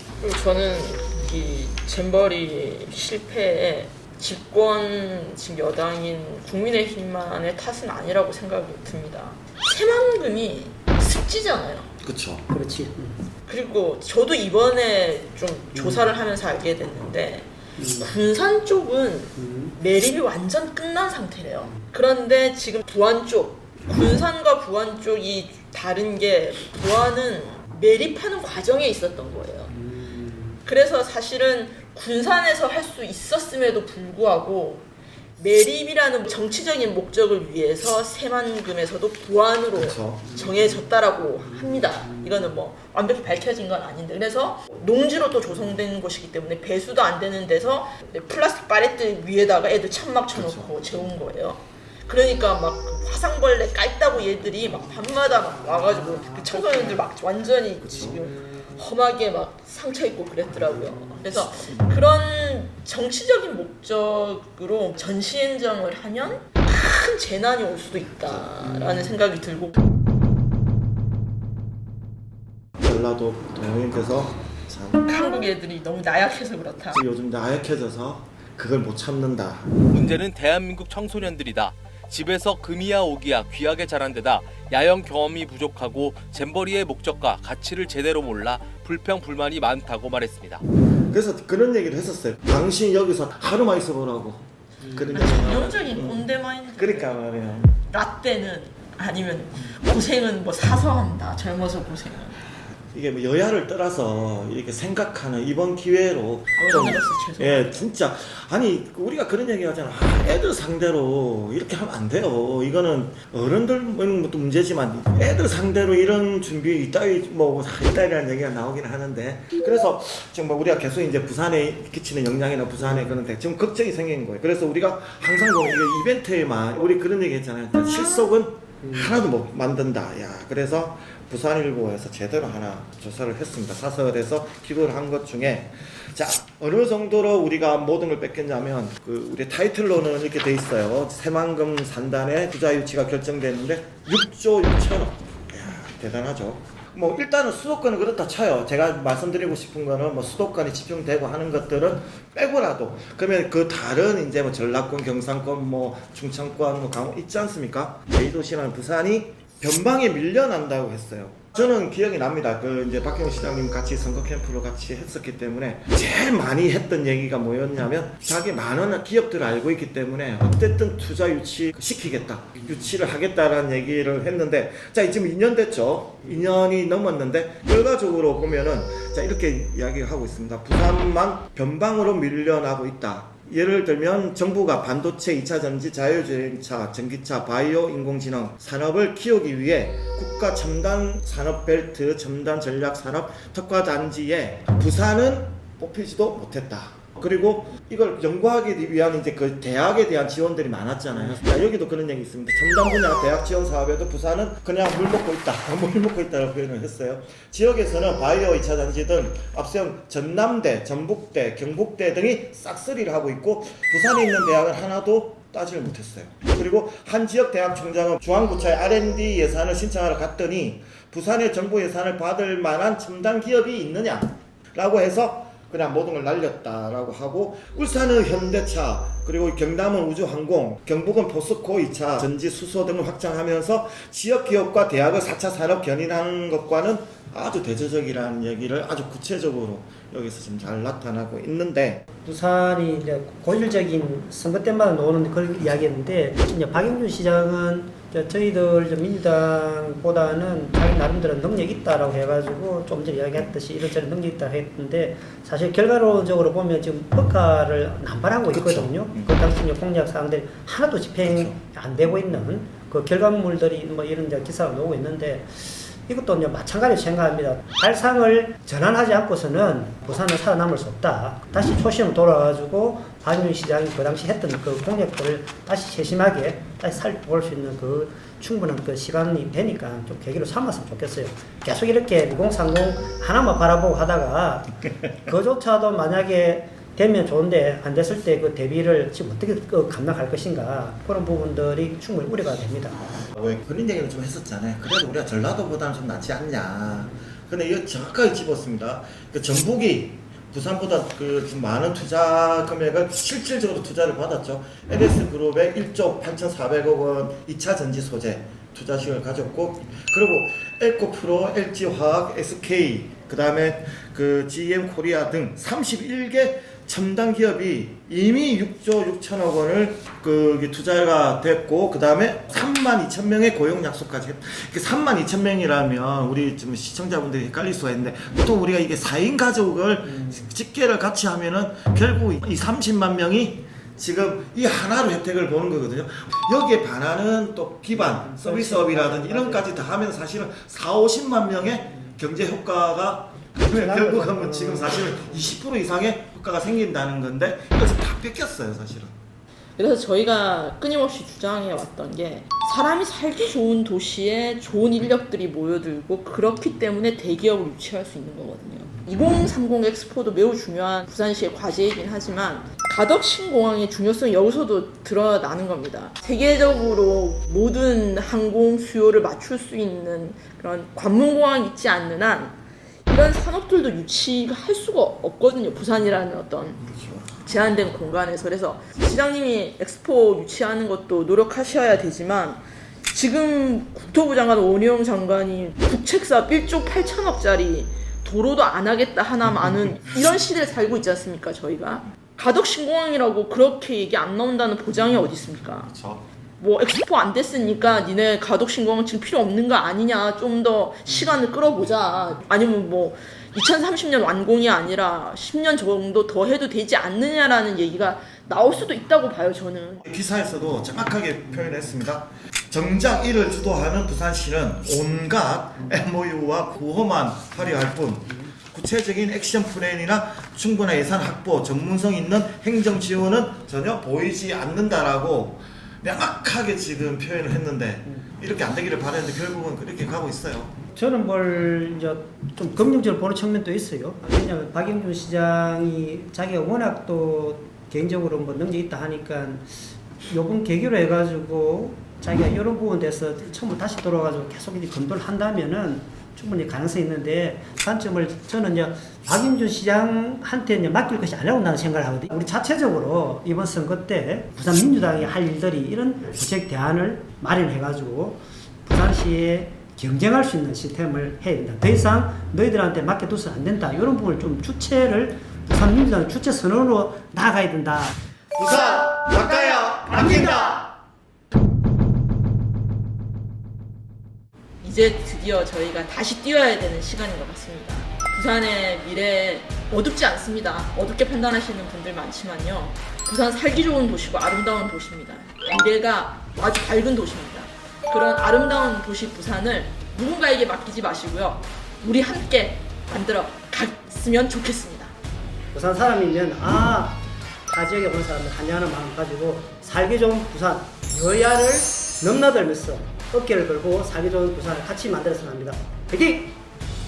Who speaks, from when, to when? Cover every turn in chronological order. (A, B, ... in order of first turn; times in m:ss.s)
0:00.2-0:11.9 A
0:12.0-0:12.4 B
0:12.5-0:13.2 C
0:13.5-0:29.8 A
0:15.7-0:16.1 C
0:17.8-0:18.1 C
0:19.4-0:19.7 C
0:29.7-0:30.6 C
0:30.6-0:34.8 A
0:35.4-1:09.8 A
0:39.7-0:40.4 B
0:50.3-0:50.8 B
0:54.5-0:57.0 C
1:12.8-1:15.0 B
1:15.0-1:17.0 A
1:16.9-1:19.7 B
1:19.9-1:30.6 D
1:31.1-1:37.8 B
1:35.1-1:37.2 A
1:37.9-1:42.4 A
1:42.7-4:02.0 B
1:46.5-1:47.8 A
4:02.2-4:53.0 C
4:18.5-4:19.3 B
4:21.3-4:21.6 B
4:53.4-5:49.2 B
5:37.9-5:39.9 C
5:43.7-5:45.2 C
5:49.8-6:12.6 A
6:13.1-6:16.8 A
6:16.8-6:17.4 B
6:17.4-6:35.9 A
6:35.9-6:36.2 B
6:36.6-6:50.0 A
6:50.0-7:10.7 B
7:10.9-7:19.7 C
7:20.3-7:48.1 C
7:48.5-7:50.9 B
7:54.8-8:15.1 A
8:15.7-8:26.5 C